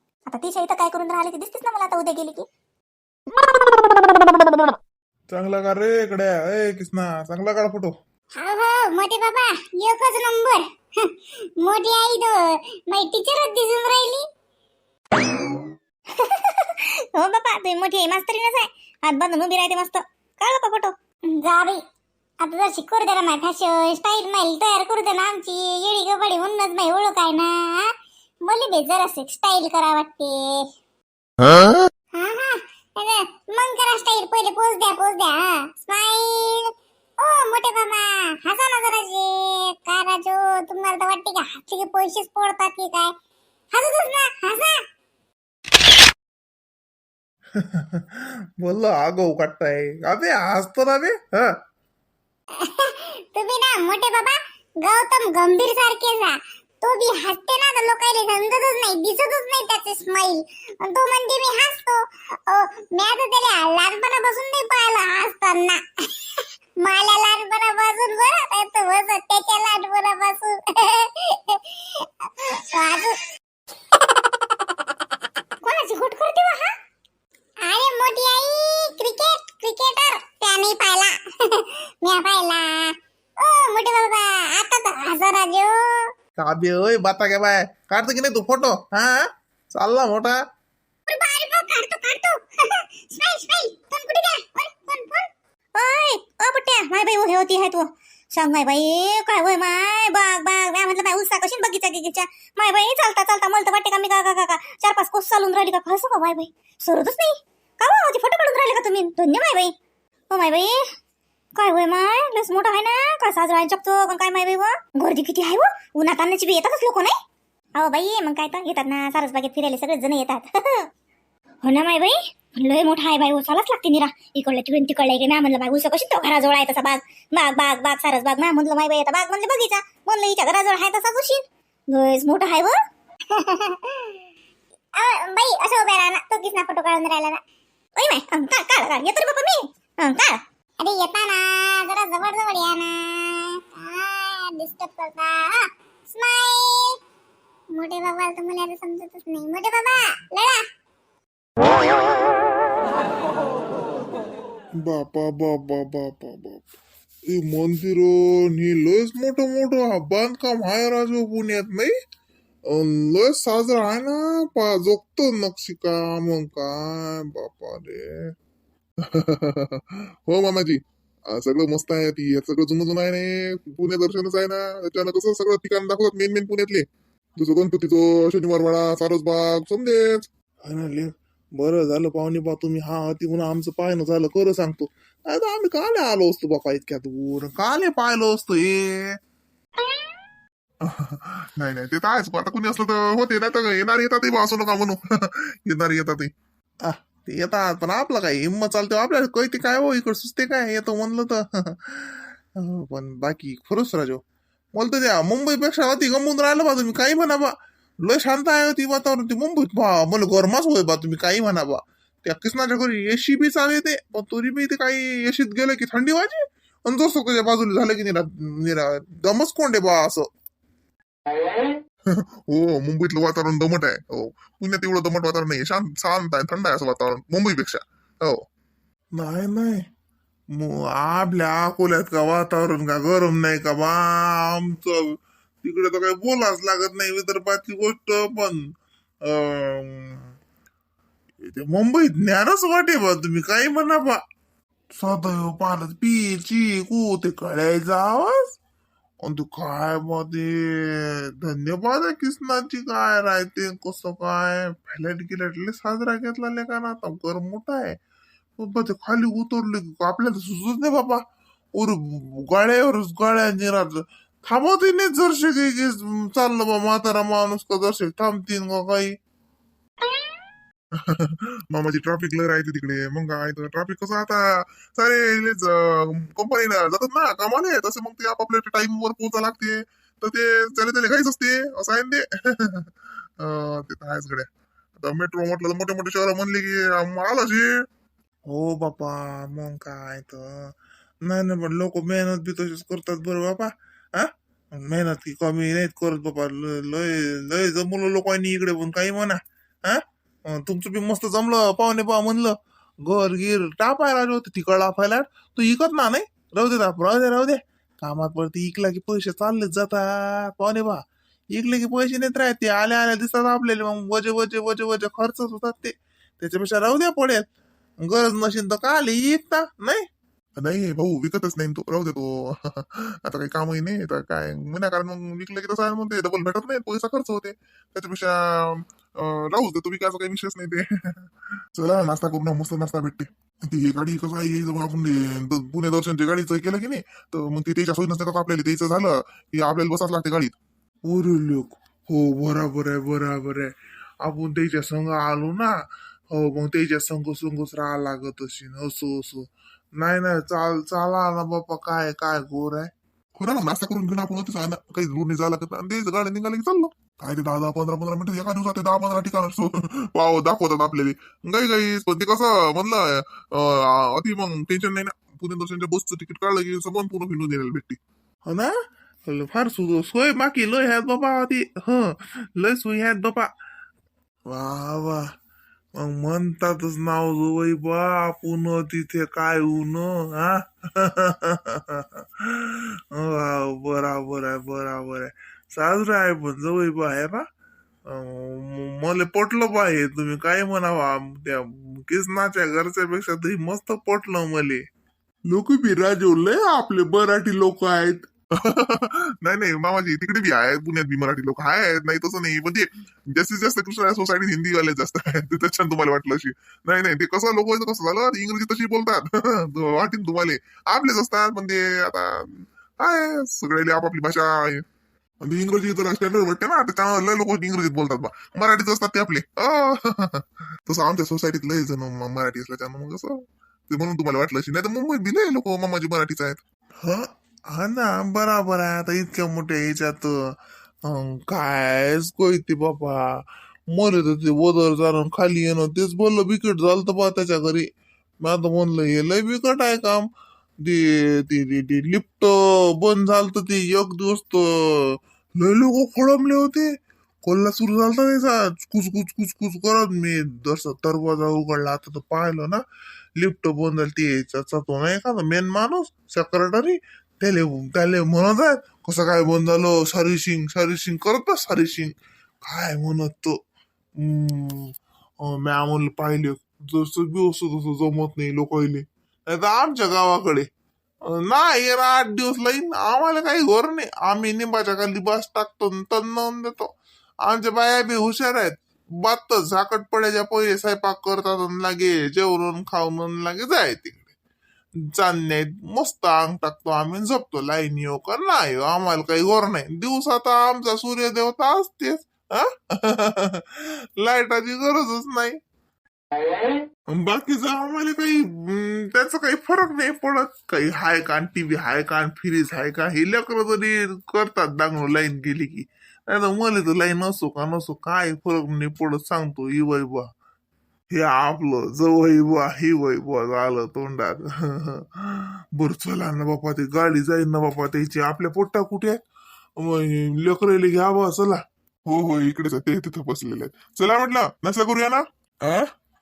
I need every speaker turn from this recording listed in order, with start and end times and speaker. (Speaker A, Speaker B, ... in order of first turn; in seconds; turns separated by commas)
Speaker A: 0.3-2.5, Speaker B: 5.3-7.9, Speaker C: 8.3-14.2, Speaker A: 16.1-20.9, Speaker C: 21.3-21.8, Speaker C: 22.4-27.9, Speaker C: 28.5-30.6, Speaker C: 32.1-36.6, Speaker C: 37.2-43.1, Speaker C: 43.7-44.8, Speaker B: 48.0-51.2, Speaker C: 52.6-65.8, Speaker C: 66.8-73.2, Speaker C: 75.6-76.7, Speaker C: 77.6-86.0, Speaker B: 86.4-90.3, Speaker C: 91.1-95.3, Speaker A: 95.8-109.7, Speaker A: 110.3-110.8, Speaker A: 111.5-117.1, Speaker A: 117.7-120.9, Speaker A: 121.6-132.8, Speaker C: 133.3-134.1, Speaker C: 135.0-137.4, Speaker A: 138.0-140.4, Speaker C: 140.8-145.6, Speaker C: 146.1-146.9, Speaker C: 147.7-150.6, Speaker B: 154.8-156.6, Speaker B: 157.3-161.9, Speaker B: 162.7-167.8, Speaker D: 164.8-165.2, Speaker D: 169.1-170.8, Speaker D: 171.3-176.8, Speaker D: 177.4-180.2, Speaker B: 180.7-189.0, Speaker D: 190.8-196.3, Speaker B: 197.2-204.2, Speaker B: 204.8-207.5, Speaker B: 208.1-220.2, Speaker D: 222.1-228.4, Speaker B: 229.2-229.8, Speaker B: 230.5-235.0, Speaker B: 235.6-238.6, Speaker B: 239.4-240.2, Speaker B: 241.5-244.1, Speaker B: 245.0-248.4, Speaker B: 249.2-257.9, Speaker B: 258.6-261.2, Speaker B: 261.8-269.1, Speaker D: 271.1-282.8, Speaker D: 283.4-287.7, Speaker B: 288.5-290.4, Speaker B: 291.3-294.3, Speaker B: 294.9-295.4, Speaker B: 295.9-300.0, Speaker B: 300.6-302.5, Speaker B: 303.1-311.0, Speaker B: 311.5-317.4, Speaker B: 318.0-320.0, Speaker D: 320.6-331.1, Speaker D: 331.7-340.6, Speaker B: 341.1-343.7, Speaker B: 344.2-345.7, Speaker B: 346.3-349.4, Speaker B: 350.0-352.9, Speaker D: 353.4-368.0, Speaker B: 369.3-371.9, Speaker D: 372.6-373.5, Speaker D: 374.5-375.2, Speaker D: 376.0-377.9, Speaker B: 377.9-380.5, Speaker B: 381.2-382.0, Speaker B: 383.2-385.2, Speaker B: 385.9-387.4, Speaker B: 388.1-394.8, Speaker B: 395.5-398.2, Speaker D: 398.6-414.8, Speaker D: 415.4-426.6, Speaker B: 427.1-430.3, Speaker B: 431.1-433.2, Speaker B: 433.9-434.6, Speaker D: 435.1-436.6, Speaker B: 436.7-437.8, Speaker B: 438.4-440.2, Speaker B: 440.8-446.9, Speaker B: 447.4-452.8, Speaker B: 453.4-462.1, Speaker B: 462.7-463.5, Speaker B: 464.2-464.9, Speaker B: 465.6-468.8, Speaker B: 469.7-470.6, Speaker B: 471.5-476.9, Speaker B: 477.6-478.7, Speaker B: 479.2-483.9, Speaker D: 484.1-484.3, Speaker B: 485.2-493.6, Speaker B: 494.2-495.5, Speaker B: 497.2-502.1, Speaker D: 502.3-502.9, Speaker B: 503.0-505.8, Speaker B: 506.3-510.2, Speaker D: 511.1-511.8, Speaker B: 511.4-519.1, Speaker B: 519.9-521.4, Speaker D: 522.1-525.9